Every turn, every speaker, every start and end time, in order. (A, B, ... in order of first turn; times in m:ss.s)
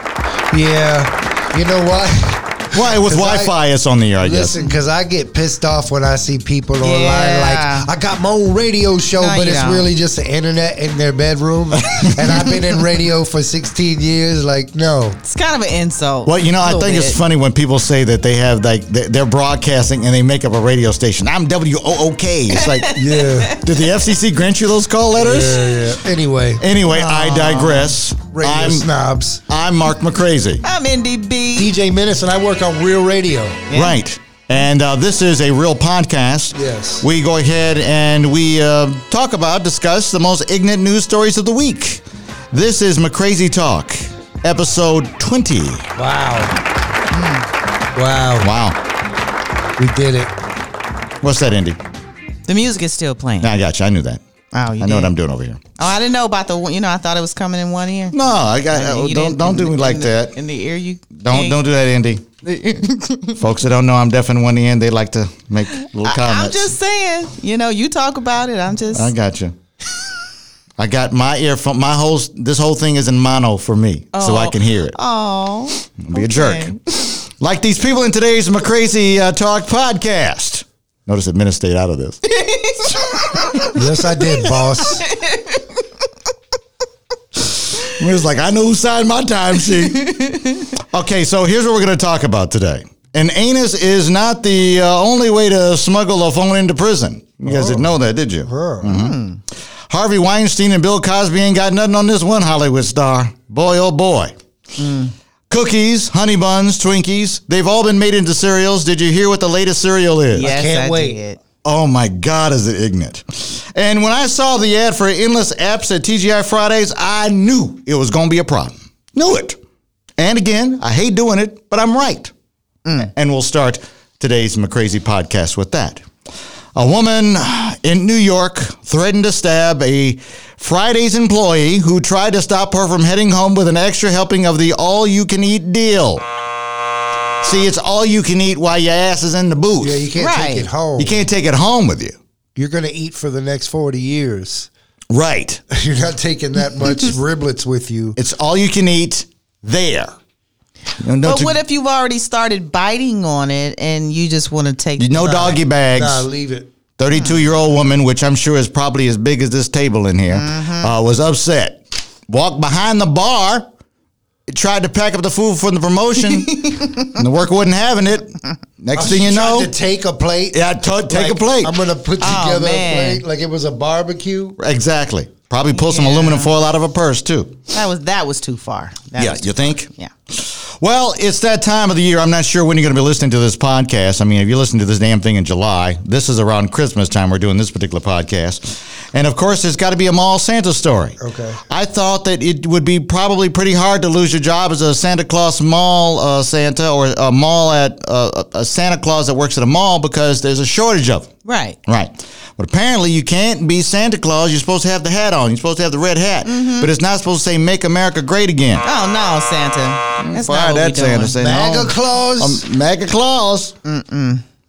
0:00.5-0:03.5 A
0:02.7-0:04.6 B
0:04.2-0:15.2 A
0:06.8-0:07.9 C
0:09.2-0:09.9 C
0:15.2-0:17.2 C
0:16.2-0:22.9 B
0:22.5-0:23.5 C
0:22.9-0:23.6 A
0:23.5-0:25.9 B
0:25.2-0:26.7 A
0:26.6-0:28.9 B
0:26.9-0:27.9 C
0:28.3-0:29.4 A
0:29.5-0:30.6 B
0:30.6-0:31.7 C
0:31.6-0:33.6 A
0:33.7-0:34.0 C
0:33.7-0:45.9 B
0:36.5-0:37.0 A
0:46.0-0:46.5 A
0:47.1-0:47.4 C
0:47.9-0:48.5 A
0:48.4-0:48.8 B
0:49.8-0:50.3 A
0:51.2-0:51.8 B
0:52.5-0:53.5 C
0:53.4-0:54.2 B
0:54.5-0:55.1 C
0:54.8-0:55.6 B
0:55.8-0:58.2 C
0:58.1-1:00.4 B
0:58.7-1:01.6 C
1:01.2-1:02.2 B
1:02.4-1:03.4 C
1:03.4-1:06.7 B
1:05.8-1:09.1 C
1:08.9-1:09.6 B
1:10.8-1:15.0 B
1:14.1-1:16.8 C
1:16.0-1:22.2 B
1:22.2-1:23.7 C
1:23.7-1:25.0 A
1:25.0-1:25.6 C
1:27.9-1:30.4 B
1:30.0-1:30.7 C
1:30.9-1:39.2 B
1:37.4-1:37.9 A
1:38.4-1:38.9 A
1:38.8-1:39.4 C
1:39.9-1:44.3 B
1:44.8-1:45.1 C
1:45.5-1:50.5 B
1:50.3-1:51.4 C
1:50.4-1:51.2 A
1:51.6-1:59.6 B
2:00.2-2:02.3 B
2:03.0-2:06.0 B
2:06.8-2:16.2 B
2:17.4-2:20.1 B
2:19.8-2:21.2 A
2:20.2-2:20.7 C
2:21.0-2:22.2 B
2:22.6-2:24.7 A
2:25.1-2:25.6 B
2:25.7-2:28.2 A
2:28.2-2:30.1 B
2:31.0-2:31.6 B
2:31.2-2:35.3 C
2:35.0-2:36.3 B
2:35.2-2:36.7 A
2:37.0-2:43.7 B
2:40.3-2:40.9 C
2:44.5-2:49.7 B
2:46.2-2:47.1 C
2:48.9-2:54.6 A
2:50.5-2:51.7 B
2:52.2-2:53.2 C
2:54.6-2:57.6 B
2:55.7-2:56.5 C
2:57.7-3:00.1 C
2:59.2-3:11.2 B
3:11.2-3:11.6 A
3:11.7-3:21.3 B
3:21.4-3:21.8 C
3:21.8-3:28.8 B
3:26.4-3:26.9 C
3:28.8-3:31.4 C
3:30.2-3:33.7 B
3:31.4-3:32.6 A
3:33.8-3:34.4 C